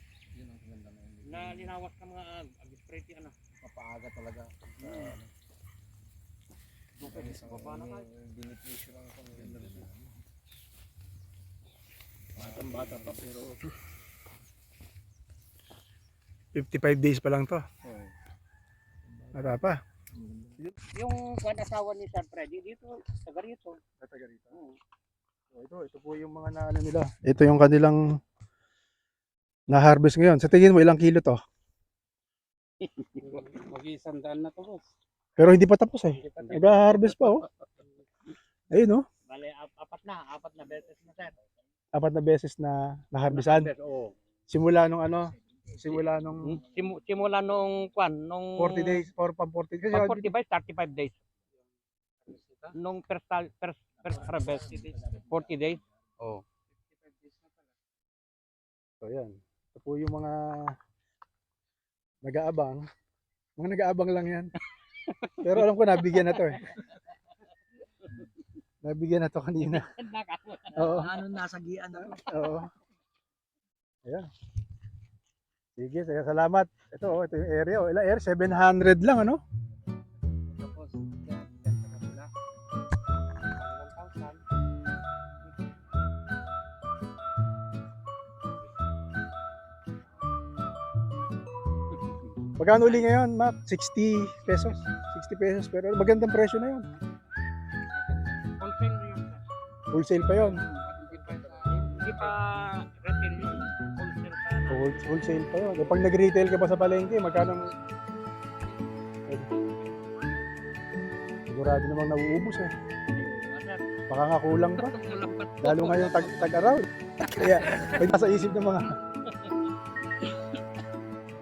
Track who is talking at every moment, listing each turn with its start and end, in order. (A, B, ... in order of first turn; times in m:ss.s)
0:00.3-0:01.8 A
0:01.2-0:03.4 B
0:03.6-0:05.3 A
0:04.8-0:05.1 B
0:07.0-0:08.0 B
0:07.0-0:10.1 A
0:12.4-0:13.7 A
0:16.6-0:17.6 C
0:17.8-0:18.1 A
0:19.2-0:19.6 A
0:19.3-0:19.8 C
0:20.2-0:20.5 A
0:20.6-0:23.8 B
0:24.0-0:24.5 C
0:25.5-0:28.0 C
0:29.7-0:31.4 C
0:33.2-0:34.8 D
0:35.4-0:37.4 C
0:36.2-0:36.7 D
0:36.4-0:37.2 B
0:38.7-0:39.0 C
0:39.3-0:41.4 B
0:42.0-0:43.7 C
0:43.3-0:44.1 B
0:44.5-0:46.6 C
0:45.8-0:49.1 B
0:48.6-0:50.3 C
0:49.9-0:51.2 B
0:52.2-0:52.8 D
0:52.7-0:56.4 B
0:56.9-0:57.7 D
0:59.0-1:00.8 C
1:02.2-1:02.8 C
1:03.6-1:04.5 C
1:05.2-1:06.8 B
1:05.4-1:06.7 C
1:08.8-1:09.9 C
1:09.7-1:12.5 B
1:10.7-1:11.2 C
1:11.9-1:12.7 C
1:15.8-1:19.4 C
1:20.5-1:22.3 D
1:23.5-1:24.4 D
1:32.6-1:36.9 C
1:38.0-1:39.0 D
1:38.6-1:39.4 B
1:39.9-1:40.6 C
1:40.2-1:42.4 D
1:41.9-1:45.1 B
1:44.7-1:47.7 C
1:49.5-1:49.8 B
1:51.5-1:52.7 C
1:53.1-1:53.8 B
1:54.1-1:54.9 C
1:54.8-1:56.5 B
1:55.6-1:58.9 C
1:57.2-1:58.1 B
1:59.2-1:59.6 B